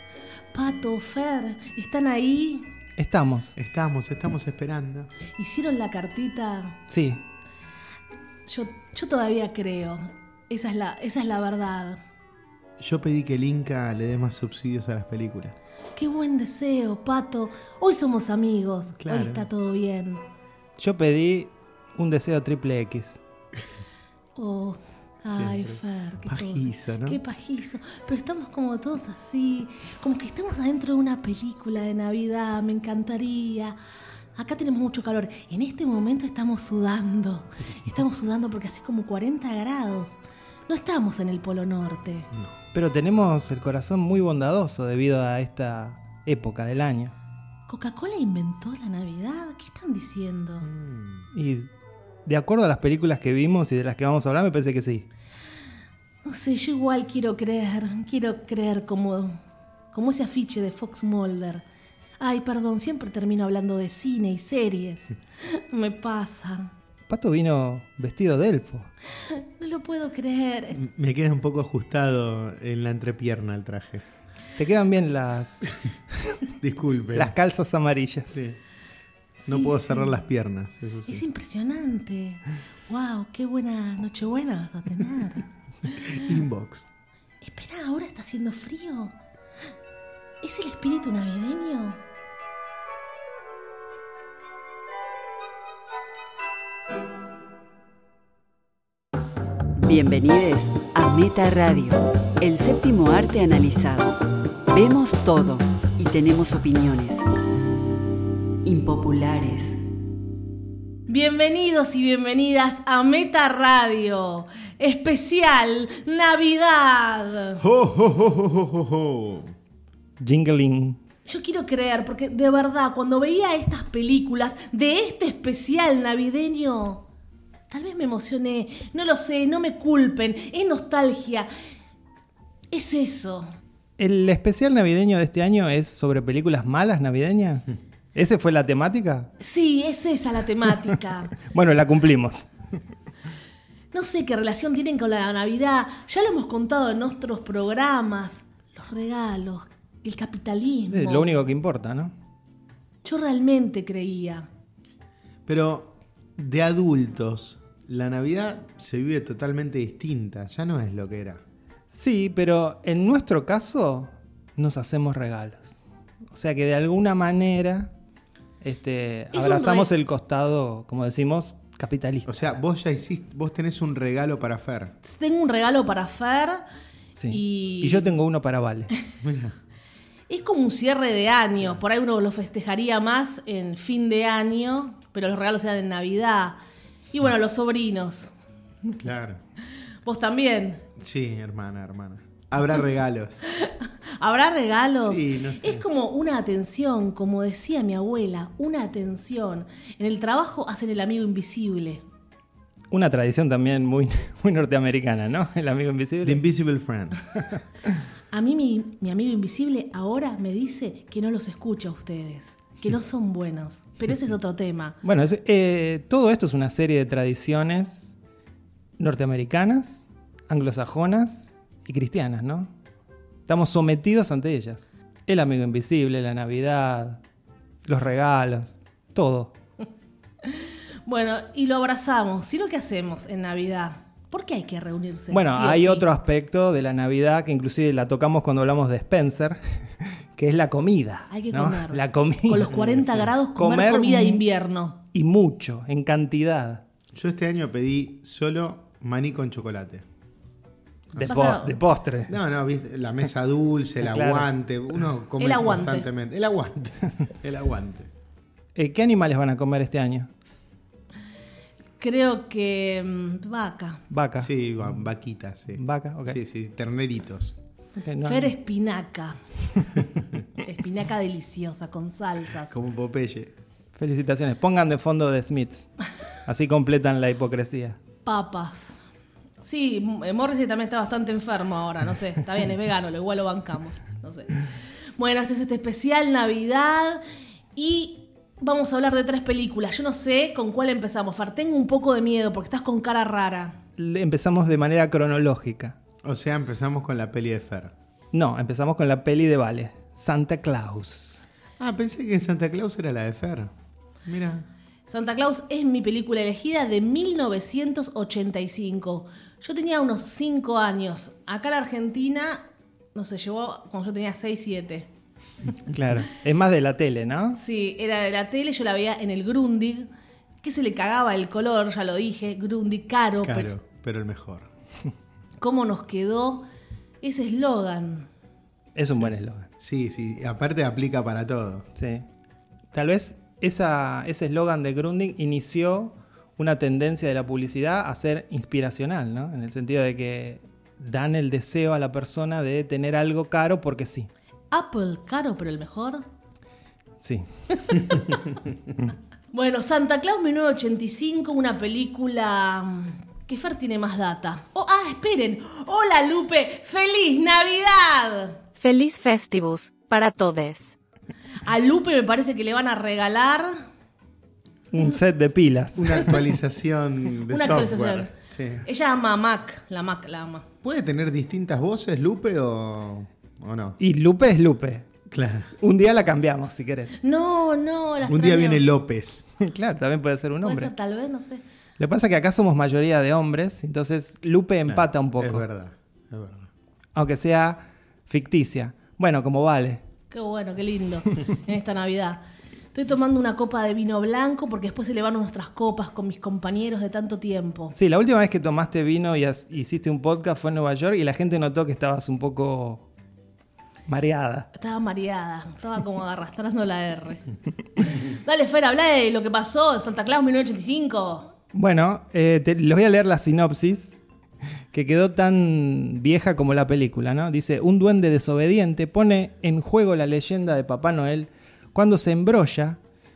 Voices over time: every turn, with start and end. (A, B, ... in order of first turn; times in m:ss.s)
0:00.5-0:02.7 A
0:03.0-0:03.5 B
0:03.6-0:05.1 C
0:05.3-0:06.8 A
0:06.9-0:07.2 B
0:08.5-0:12.0 A
0:12.8-0:15.6 C
0:16.0-0:20.2 A
0:19.0-0:19.5 C
0:20.8-0:23.2 B
0:24.4-0:33.8 A
0:25.3-0:25.8 C
0:26.2-0:27.2 C
0:34.4-0:42.3 A
0:42.7-0:47.1 B
0:47.7-0:50.7 A
0:50.6-0:51.3 C
0:51.3-0:51.7 B
0:52.3-0:55.1 B
0:56.2-0:59.4 A
0:59.9-1:01.6 A
1:02.2-1:06.7 A
1:07.1-1:08.9 B
1:09.3-1:10.8 A
1:10.8-1:14.0 C
1:14.6-1:16.4 B
1:16.6-1:17.3 C
1:17.1-1:18.4 B
1:18.3-1:18.6 C
1:19.4-1:20.1 A
1:19.4-1:21.2 C
1:21.1-1:25.4 A
1:25.9-1:26.9 C
1:27.4-1:29.1 A
1:30.4-1:32.0 A
1:39.8-1:47.2 D
1:48.6-1:49.8 D
1:51.1-1:57.6 A
1:57.6-1:59.5 C
2:00.2-2:01.0 B
2:01.3-2:07.0 A
2:07.7-2:11.5 A
2:12.7-2:13.5 A
2:14.0-2:19.3 B
2:19.4-2:21.3 A
2:21.4-2:22.5 B
2:23.9-2:31.3 A
2:30.9-2:32.1 B
2:33.0-2:34.5 A
2:35.4-2:41.4 C
2:41.9-2:45.8 B
2:46.3-2:47.9 B
2:48.6-2:52.5 B
2:49.3-2:49.9 A
2:52.3-2:54.9 C
2:55.0-2:56.6 A
2:57.2-2:58.9 B
2:57.3-2:58.1 A
2:59.2-2:59.6 C
3:00.3-3:06.6 A
3:07.1-3:08.3 A
3:09.0-3:09.4 C
3:10.0-3:10.8 A
3:11.0-3:13.4 C
3:13.5-3:22.0 A
3:15.0-3:15.8 C
3:22.9-3:26.4 B
3:26.2-3:27.2 C
3:28.3-3:35.0 A
3:35.0-3:38.2 B
3:39.0-3:42.7 B
3:43.5-3:47.2 B
3:47.8-3:49.5 B
3:50.4-3:56.1 A
3:55.3-3:59.6 B
4:00.3-4:02.7 B
4:01.3-4:05.0 A
4:02.7-4:03.3 C
4:03.6-4:04.4 B
4:05.1-4:06.8 B
4:07.1-4:10.0 C
4:11.1-4:11.6 C
4:11.1-4:12.3 B
4:11.3-4:11.7 A
4:12.3-4:18.1 C
4:14.0-4:14.5 B
4:15.4-4:16.1 A
4:18.8-4:20.3 B
4:22.0-4:24.0 A
4:24.1-4:24.5 B
4:24.4-4:27.6 C
4:25.8-4:26.4 B
4:28.0-4:28.5 B
4:28.2-4:29.4 A
4:30.6-4:32.8 A
4:32.7-4:33.5 C
4:34.0-4:35.9 B
4:36.4-4:38.0 B
4:38.2-4:38.9 A
4:39.6-4:44.6 A
4:45.2-4:47.2 A
4:47.8-4:53.8 A
4:54.0-4:56.0 B
4:56.2-4:57.9 C
4:58.3-5:01.4 B
5:01.8-5:03.7 C
5:04.2-5:04.6 C
5:05.1-5:15.1 A
5:15.8-5:17.6 B
5:17.6-5:20.1 A
5:20.6-5:23.7 A
5:23.4-5:24.7 C
5:25.6-5:26.6 A
5:27.2-5:28.3 A
5:29.0-5:29.7 B
5:29.2-5:31.9 C
5:32.0-5:32.2 B
5:32.9-5:44.3 B
5:44.7-5:46.2 A
5:47.2-5:48.2 B
5:47.8-5:48.5 A
5:49.5-5:58.6 A
5:58.8-6:01.0 E
6:01.6-6:03.8 A
6:04.9-6:06.4 B
6:05.9-6:08.8 C
6:07.5-6:08.3 A
6:08.8-6:10.7 A
6:10.8-6:14.0 C
6:14.0-6:15.1 B
6:15.3-6:15.7 C
6:15.8-6:17.2 B
6:17.2-6:18.8 A
6:18.3-6:19.4 C
6:19.6-6:20.9 B
6:20.6-6:21.6 A
6:22.0-6:25.6 B
6:24.9-6:26.7 C
6:27.1-6:30.0 B
6:30.3-6:32.4 A
6:32.9-6:38.0 A
6:37.9-6:43.1 B
6:44.1-6:44.7 B
6:44.7-6:47.4 A
6:48.0-6:51.5 A
6:51.7-6:54.2 B
6:54.9-7:03.0 B